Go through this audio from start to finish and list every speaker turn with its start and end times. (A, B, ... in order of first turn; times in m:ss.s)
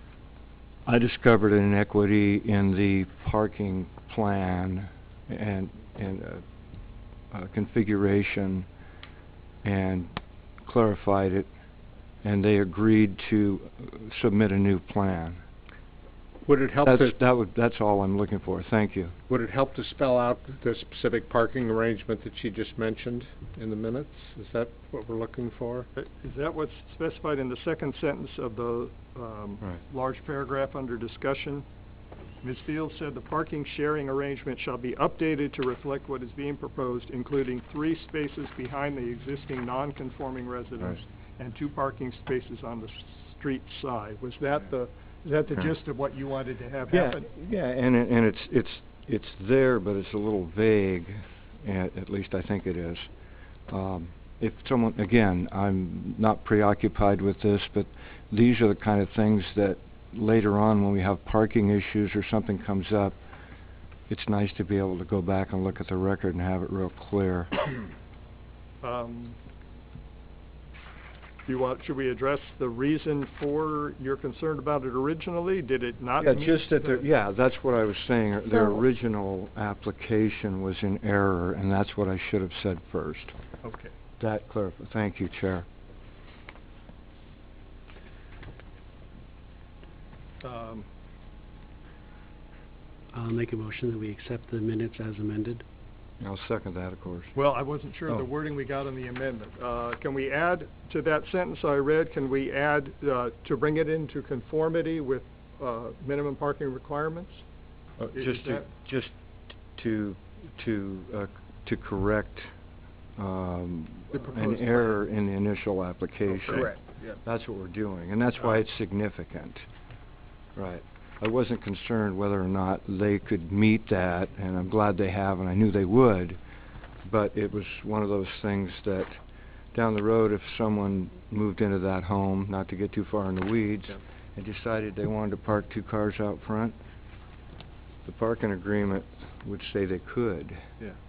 0:00.8-0:06.4 A
0:07.3-0:08.7 A
0:09.6-0:11.5 A
0:12.2-0:15.4 A
0:16.4-0:17.1 B
0:16.8-0:19.1 A
0:19.3-0:25.9 B
0:26.0-0:31.6 C
0:32.4-0:47.2 C
0:46.9-0:53.1 A
0:53.7-1:03.2 A
1:04.1-1:07.5 A
1:08.8-1:09.4 C
1:11.4-1:17.0 C
1:16.2-1:23.3 A
1:23.6-1:23.9 C
1:24.2-1:25.6 A
1:30.4-1:30.8 C
1:33.1-1:35.6 D
1:36.2-1:37.3 A
1:37.3-1:47.4 C
1:48.0-1:49.1 A
1:48.2-1:48.6 C
1:49.7-1:52.5 A
1:53.2-1:59.6 A
1:56.3-1:56.7 C
2:00.6-2:06.4 A
2:07.0-2:09.2 A
2:09.7-2:16.7 A
2:18.0-2:20.7 A